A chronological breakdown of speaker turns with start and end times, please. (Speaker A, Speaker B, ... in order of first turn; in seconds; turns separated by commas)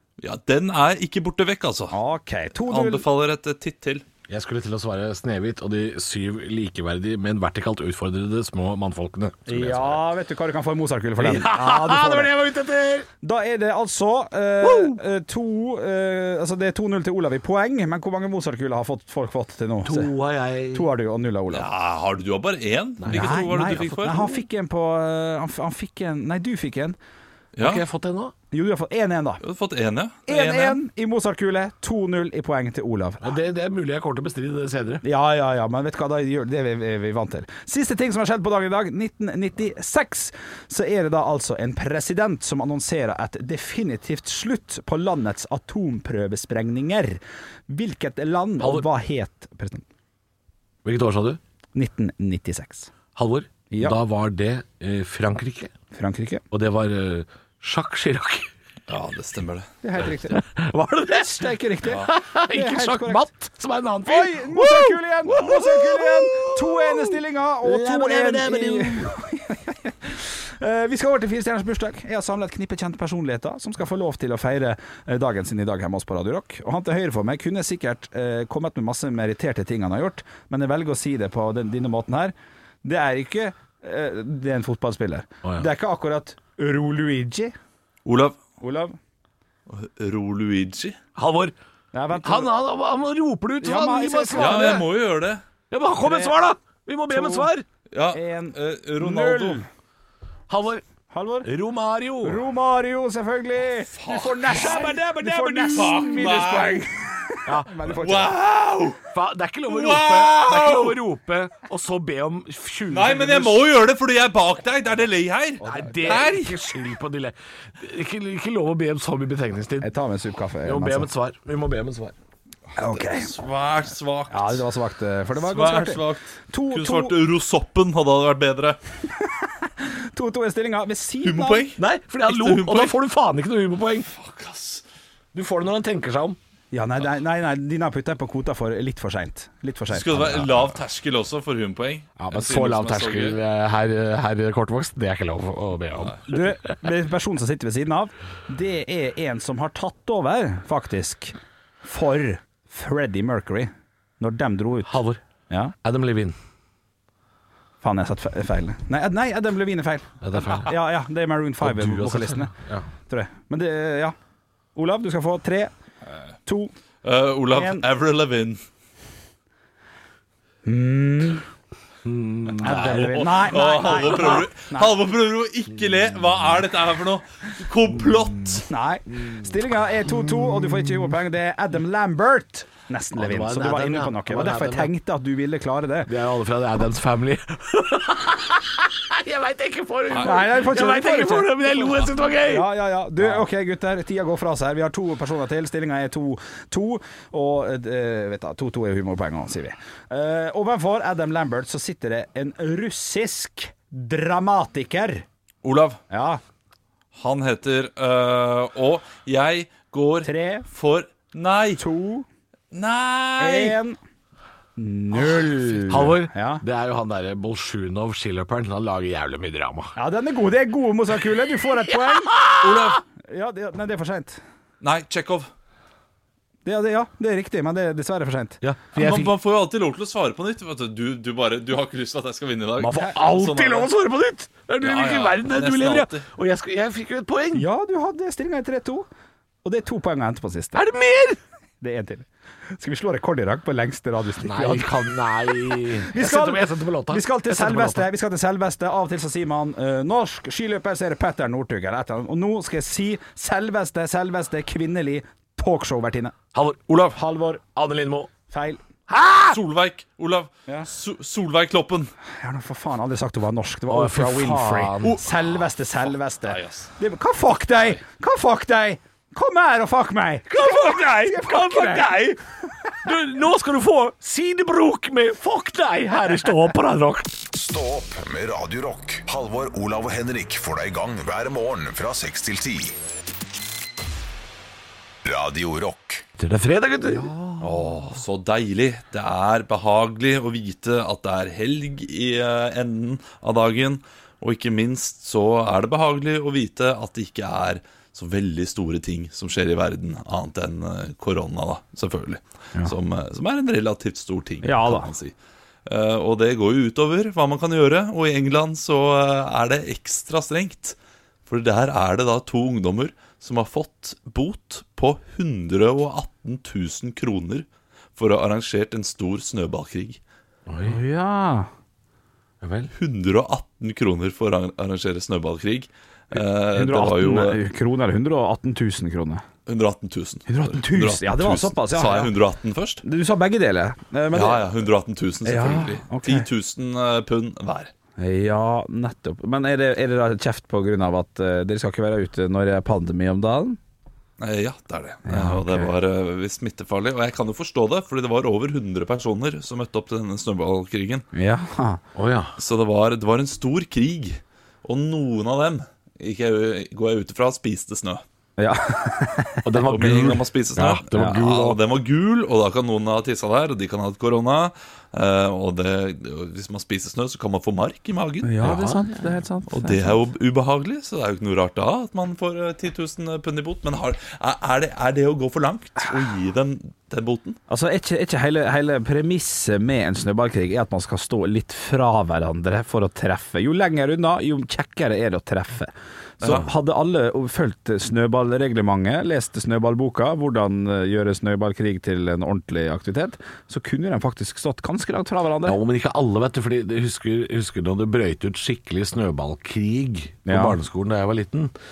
Speaker A: 0.2-1.9, Speaker B: 1.9-3.0, Speaker A: 2.7-4.0, Speaker C: 4.3-10.0, Speaker B: 9.5-12.4, Speaker C: 11.2-13.1, Speaker B: 13.2-20.1, Speaker C: 14.6-15.0, Speaker C: 19.9-20.9, Speaker B: 20.7-21.7, Speaker A: 21.5-24.4, Speaker C: 23.0-24.2, Speaker B: 23.1-27.0, Speaker A: 27.6-27.9, Speaker C: 27.6-28.3, Speaker B: 28.5-29.4, Speaker A: 29.4-30.8, Speaker B: 30.3-33.3, Speaker C: 33.2-35.0, Speaker B: 35.0-49.9, Speaker C: 48.6-48.9, Speaker C: 50.9-51.4, Speaker B: 51.8-52.9, Speaker C: 53.2-55.7, Speaker B: 53.7-54.0, Speaker B: 55.9-56.4, Speaker C: 56.5-58.5, Speaker A: 58.9-59.7, Speaker B: 59.8-60.4, Speaker C: 60.0-69.2, Speaker B: 61.1-63.3, Speaker B: 64.0-82.3, Speaker B: 82.8-87.5, Speaker A: 88.1-88.4, Speaker B: 88.6-89.0, Speaker A: 89.7-91.0, Speaker C: 91.2-91.5, Speaker B: 91.9-92.5, Speaker C: 92.2-94.9, Speaker B: 93.6-94.9, Speaker A: 94.4-95.4, Speaker C: 95.7-97.7, Speaker B: 96.0-96.3, Speaker B: 97.1-97.5, Speaker A: 97.9-99.6, Speaker B: 98.1-99.7, Speaker C: 100.5-100.8, Speaker B: 101.1-101.5, Speaker C: 101.4-102.4, Speaker B: 102.2-108.3, Speaker A: 104.0-104.8, Speaker C: 104.4-106.4, Speaker A: 105.7-106.9, Speaker C: 107.5-107.9, Speaker A: 107.9-109.0, Speaker C: 109.1-113.7, Speaker A: 109.7-111.0, Speaker A: 112.9-116.6, Speaker B: 115.6-116.2, Speaker C: 115.6-119.9, Speaker B: 119.8-121.1, Speaker C: 120.6-122.2, Speaker B: 122.8-123.3, Speaker A: 123.0-124.6, Speaker B: 124.3-127.2, Speaker A: 125.4-128.8, Speaker B: 129.2-131.7, Speaker A: 131.2-133.0, Speaker C: 131.8-134.1, Speaker A: 134.1-134.8, Speaker C: 135.3-136.4, Speaker B: 136.7-140.6, Speaker A: 139.9-143.4, Speaker C: 142.2-146.4, Speaker B: 146.3-155.0, Speaker C: 154.8-155.2, Speaker C: 155.8-156.3, Speaker B: 157.8-162.5, Speaker C: 160.2-160.7, Speaker C: 161.6-162.9, Speaker B: 163.1-164.2, Speaker B: 164.8-165.7, Speaker B: 166.5-166.7, Speaker A: 167.0-168.6, Speaker B: 167.5-167.8, Speaker B: 170.7-171.5, Speaker C: 172.1-173.3, Speaker B: 172.6-174.9, Speaker A: 172.6-178.7, Speaker B: 178.7-186.1, Speaker C: 179.2-179.5, Speaker C: 183.1-184.9, Speaker C: 186.1-192.7, Speaker A: 190.1-190.4, Speaker B: 190.2-192.0, Speaker B: 192.5-205.2, Speaker A: 205.6-206.0, Speaker B: 206.1-206.4, Speaker A: 207.1-211.8, Speaker B: 210.2-210.7, Speaker B: 211.8-212.3, Speaker A: 212.7-213.8, Speaker B: 213.4-214.0, Speaker B: 214.8-216.6, Speaker C: 215.9-219.9, Speaker B: 220.0-222.4, Speaker C: 221.9-222.9, Speaker A: 222.6-223.0, Speaker B: 223.2-224.4, Speaker A: 224.8-225.5, Speaker B: 226.7-228.6, Speaker C: 228.6-229.3, Speaker A: 228.9-233.9, Speaker C: 232.8-237.7, Speaker A: 234.8-236.2, Speaker B: 237.5-239.1, Speaker B: 239.7-240.8, Speaker C: 240.7-241.4, Speaker B: 241.8-256.4, Speaker C: 244.4-248.1, Speaker C: 256.5-258.3, Speaker B: 257.1-257.6, Speaker B: 258.5-258.8, Speaker C: 259.1-259.6, Speaker A: 259.5-262.1, Speaker B: 262.4-272.4, Speaker C: 263.9-265.2, Speaker A: 266.4-266.9, Speaker C: 270.5-272.4, Speaker C: 273.0-277.4, Speaker D: 277.5-283.0, Speaker D: 285.2-286.2, Speaker C: 286.4-287.3, Speaker B: 287.1-288.2, Speaker A: 287.6-305.3, Speaker B: 304.6-305.1, Speaker A: 305.9-311.0, Speaker A: 311.5-320.2, Speaker C: 320.7-321.0, Speaker B: 320.8-321.7, Speaker C: 322.6-322.9, Speaker A: 322.9-327.6, Speaker B: 326.3-329.4, Speaker A: 329.7-333.0, Speaker B: 330.5-332.3, Speaker B: 333.0-334.7, Speaker A: 334.3-337.9, Speaker B: 335.4-336.5, Speaker B: 338.2-343.8, Speaker A: 344.4-351.3, Speaker B: 345.3-345.9, Speaker B: 351.3-352.0, Speaker C: 352.1-352.5, Speaker A: 352.6-358.2, Speaker B: 358.6-360.3, Speaker C: 359.6-361.8, Speaker A: 359.9-368.7, Speaker B: 361.1-361.4, Speaker B: 368.4-370.2, Speaker C: 368.6-369.2, Speaker A: 369.7-377.6, Speaker B: 377.7-395.8, Speaker C: 395.6-401.7, Speaker B: 400.5-400.8